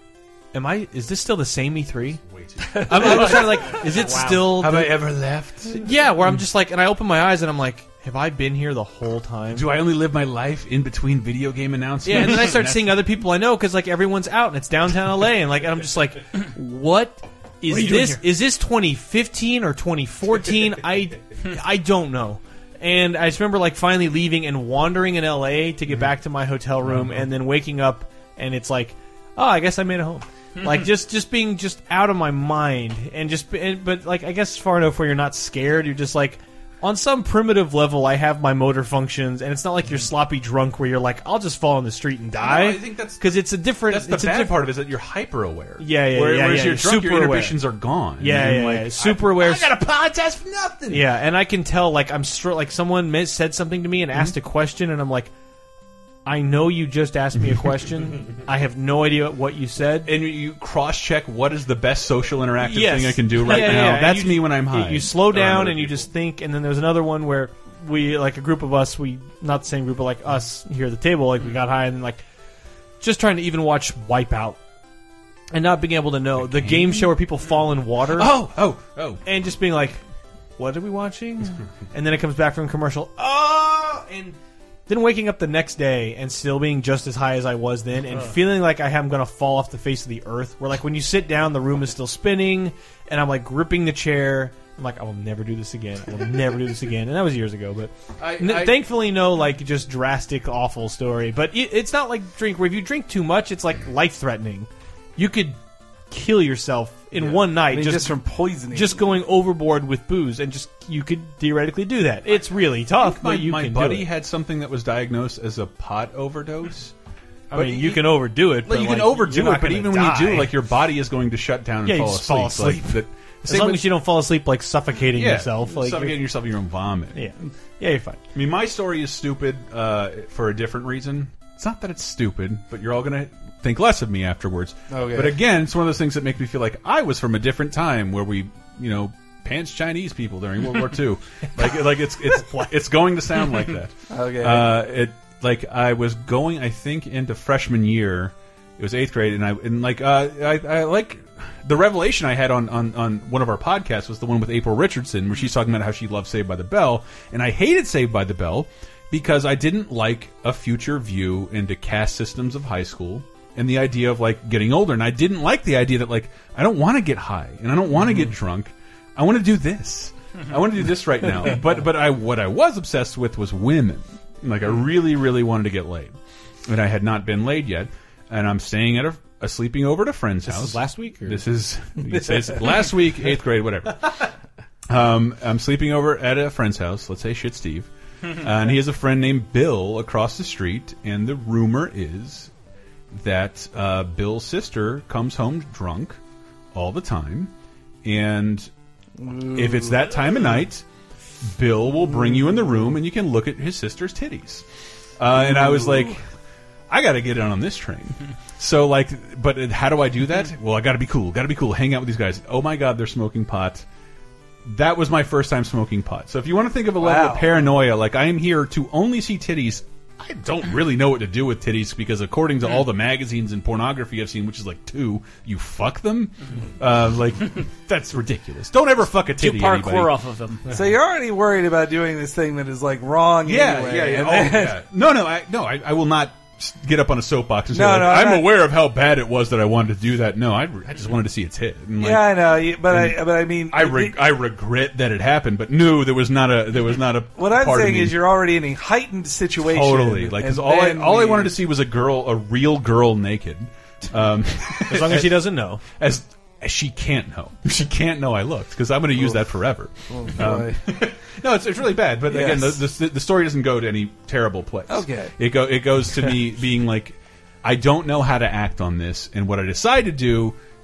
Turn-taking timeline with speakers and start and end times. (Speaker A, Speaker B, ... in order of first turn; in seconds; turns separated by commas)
Speaker A: 0.5-2.2, Speaker B: 2.3-6.4, Speaker C: 2.7-3.1, Speaker A: 2.9-5.0, Speaker D: 3.0-3.3, Speaker D: 3.9-4.6, Speaker A: 5.7-9.7, Speaker B: 9.5-13.1, Speaker A: 12.0-44.6, Speaker B: 17.6-18.2, Speaker B: 26.8-27.2, Speaker B: 42.4-51.0, Speaker A: 45.8-47.6, Speaker A: 48.2-49.7, Speaker A: 50.9-55.3, Speaker A: 56.2-60.1, Speaker B: 60.0-66.1, Speaker A: 62.6-72.2, Speaker A: 73.0-74.6, Speaker A: 75.5-78.4, Speaker B: 76.3-77.2, Speaker B: 78.1-79.2, Speaker A: 79.2-80.0, Speaker A: 80.6-84.3, Speaker A: 84.9-105.6, Speaker B: 98.2-98.8, Speaker A: 106.1-108.1, Speaker C: 107.4-109.0, Speaker A: 108.7-114.1, Speaker B: 113.0-116.9, Speaker A: 117.5-120.5, Speaker B: 117.5-123.9, Speaker A: 121.8-126.2, Speaker B: 125.1-127.3, Speaker A: 127.1-128.2, Speaker B: 128.3-176.1, Speaker C: 134.9-135.4, Speaker C: 144.1-144.7, Speaker B: 176.7-184.2, Speaker A: 180.4-181.4, Speaker B: 184.9-192.5, Speaker B: 193.1-196.2, Speaker B: 196.7-197.5, Speaker B: 198.0-198.7, Speaker C: 199.2-200.1, Speaker B: 199.5-200.8, Speaker B: 201.4-204.6, Speaker B: 205.2-206.2, Speaker C: 205.3-206.2, Speaker B: 206.9-213.8, Speaker B: 214.6-230.1, Speaker C: 217.0-217.7, Speaker D: 229.4-230.6, Speaker C: 230.7-234.8, Speaker B: 233.4-248.2, Speaker C: 237.7-238.6, Speaker C: 242.0-244.2, Speaker C: 247.3-251.6, Speaker B: 249.6-270.6, Speaker A: 254.8-255.8, Speaker C: 260.1-260.8, Speaker C: 262.3-262.8, Speaker C: 264.9-265.3